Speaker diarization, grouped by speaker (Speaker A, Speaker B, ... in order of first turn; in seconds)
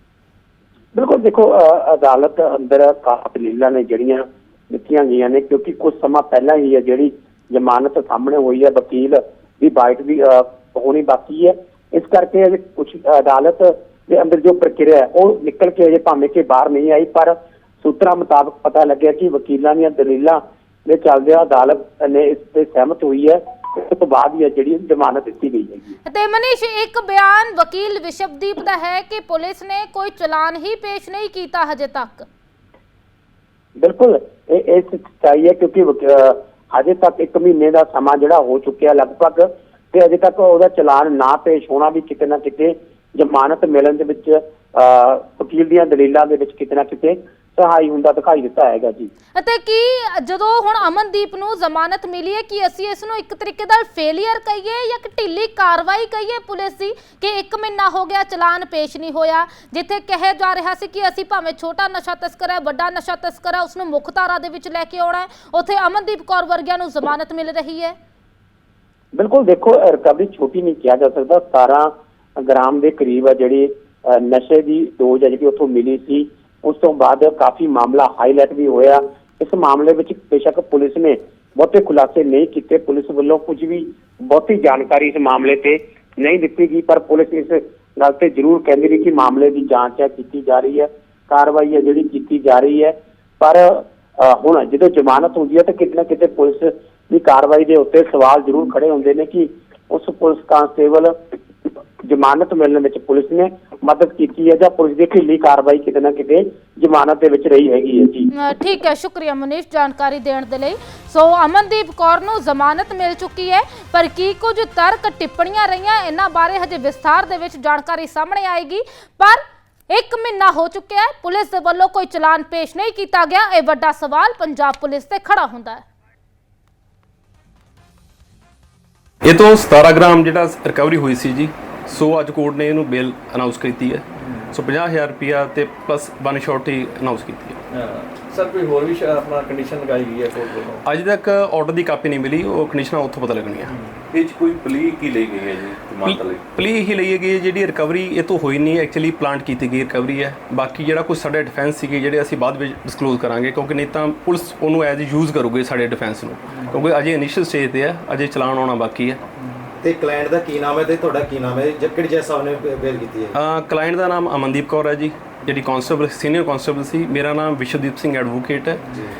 Speaker A: 0.9-25.9, 33.8-49.1, 69.2-101.2, 102.0-108.3
Speaker B: 26.1-32.3, 49.4-68.0, 108.4-125.9
Speaker C: 129.2-137.6, 140.8-143.7, 146.1-159.2, 163.3-168.8
Speaker D: 137.7-140.8
Speaker E: 144.1-146.4
Speaker F: 159.9-163.3